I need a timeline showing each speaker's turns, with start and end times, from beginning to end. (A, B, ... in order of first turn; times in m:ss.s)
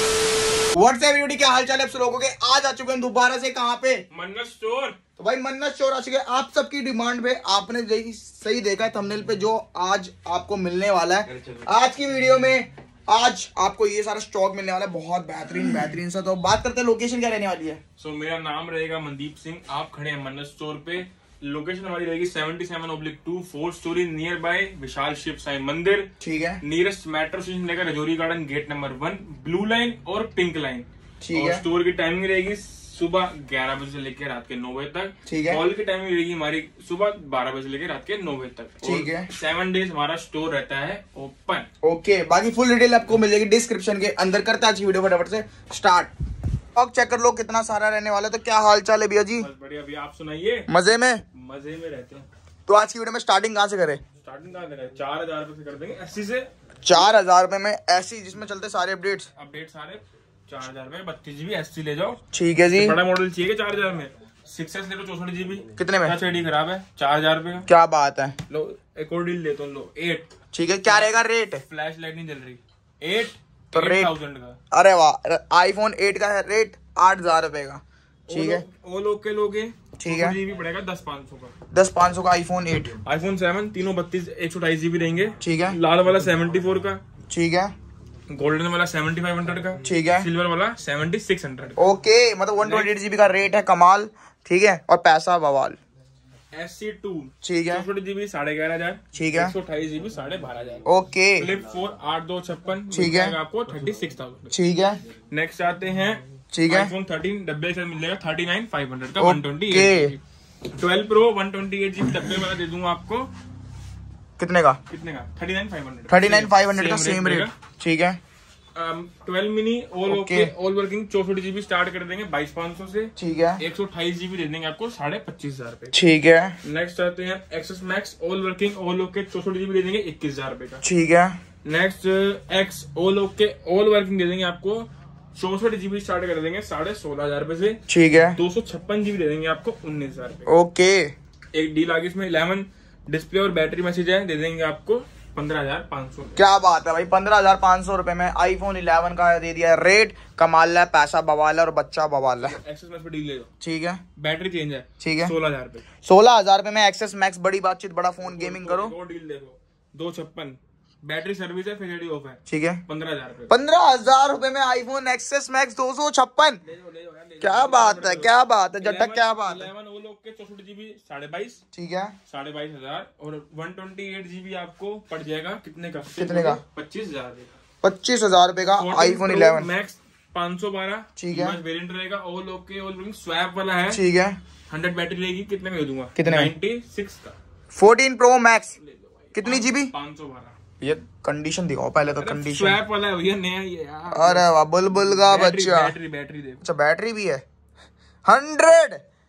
0:00.7-0:04.0 A
0:04.1-0:05.0 B
0:05.2-0:17.8 A
0:18.0-0:26.1 B
0:26.2-0:26.6 A
0:26.6-0:41.7 B
0:31.2-0:31.6 A
0:35.2-0:35.6 A
0:38.8-0:39.3 A
0:41.8-0:46.1 A
0:46.7-0:49.5 A
0:49.4-0:50.7 B
0:50.7-0:51.2 A
0:51.3-0:52.3 B
0:52.7-0:54.0 A
0:54.2-0:57.0 B
0:56.8-0:59.3 A
0:59.4-1:02.2 B
1:02.3-1:03.0 A
1:02.7-1:07.7 B
1:05.8-1:06.2 A
1:07.7-1:08.4 A
1:08.5-1:14.6 B
1:10.5-1:11.6 A
1:13.7-1:14.1 A
1:14.7-1:18.6 A
1:18.3-1:21.5 B
1:20.0-1:20.4 A
1:21.7-1:23.0 A
1:23.0-1:27.0 B
1:25.4-1:25.8 A
1:27.3-1:27.7 A
1:28.3-1:31.8 B
1:29.8-1:30.3 A
1:31.8-1:35.8 A
1:32.6-1:33.0 B
1:36.5-1:44.5 B
1:37.4-1:37.9 A
1:39.1-1:39.5 A
1:40.8-1:41.5 A
1:42.9-1:43.4 A
1:44.5-1:45.0 A
1:45.3-1:50.2 B
1:46.5-1:46.9 A
1:49.2-1:50.1 A
1:50.7-1:53.3 B
1:54.4-1:54.8 A
1:54.9-1:57.5 B
1:56.1-1:58.2 A
1:58.7-2:05.9 B
2:00.1-2:00.5 A
2:03.2-2:03.6 A
2:05.9-2:06.6 A
2:06.6-2:10.8 B
2:10.8-2:11.4 A
2:11.6-2:17.8 B
2:17.9-2:18.4 A
2:18.4-2:20.5 B
2:20.5-2:21.1 A
2:21.5-2:26.4 B
2:26.4-2:32.6 A
2:32.4-2:33.5 B
2:33.6-2:34.0 A
2:34.2-2:35.8 B
2:35.0-2:35.3 A
2:36.0-2:38.9 A
2:38.2-2:43.5 B
2:42.5-2:42.8 A
2:43.5-2:46.6 A
2:46.6-2:51.6 B
2:47.4-2:49.7 A
2:51.7-2:52.2 A
2:52.3-2:57.6 B
2:56.2-2:56.6 A
2:57.8-2:59.7 A
2:58.8-3:04.0 B
3:01.2-3:01.6 A
3:03.9-3:04.4 A
3:04.7-3:07.3 B
3:06.2-3:06.5 A
3:07.7-3:08.8 A
3:08.8-3:10.6 B
3:09.3-3:09.9 A
3:10.8-3:12.8 A
3:12.1-3:16.6 B
3:14.1-3:15.9 A
3:16.6-3:17.4 A
3:18.2-3:19.0 A